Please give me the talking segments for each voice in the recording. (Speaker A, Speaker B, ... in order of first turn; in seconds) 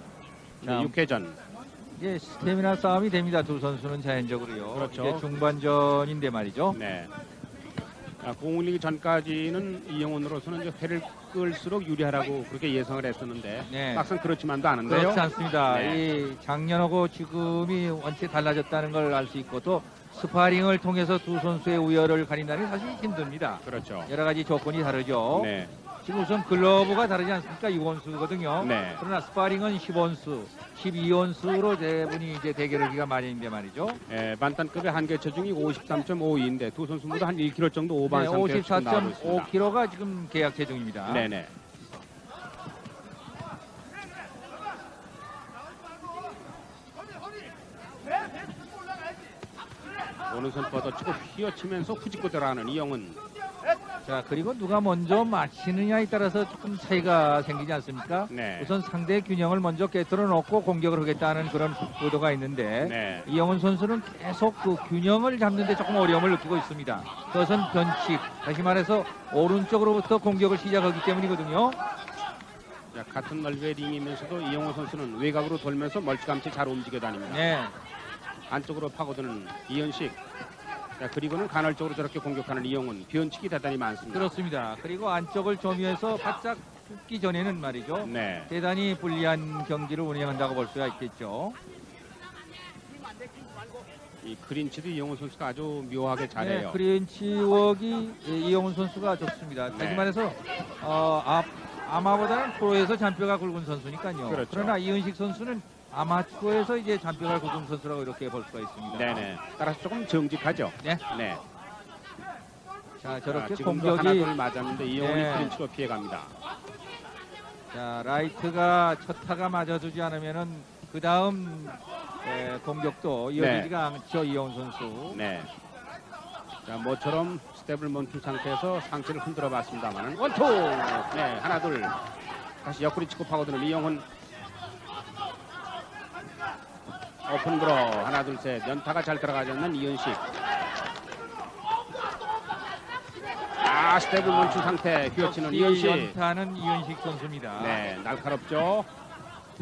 Speaker A: 0.6-1.4, 4.7-5.2, 6.7-7.1, 8.2-16.0, 23.6-24.1, 25.3-25.7, 28.6-29.0, 34.1-39.5, 41.1-41.5, 50.3-53.2, 58.3-58.7, 62.8-63.3, 72.9-77.5, 78.5-80.2, 81.0-84.3, 88.0-88.5, 94.2-96.8, 99.7-100.1, 104.3-104.8, 108.9-111.4, 113.3-116.3, 123.4-123.7, 125.1-125.5, 126.7-131.9, 132.6-134.1, 137.2-140.2, 143.6-146.2, 147.6-148.9
Speaker B: 0.6-0.9, 2.0-6.8, 13.7-14.1, 14.8-25.5, 26.0-34.0, 38.1-41.3, 54.0-71.8, 77.3-77.7, 84.1-91.6, 96.4-109.2, 113.0-114.3, 115.0-115.5, 117.7-125.2, 144.2-147.8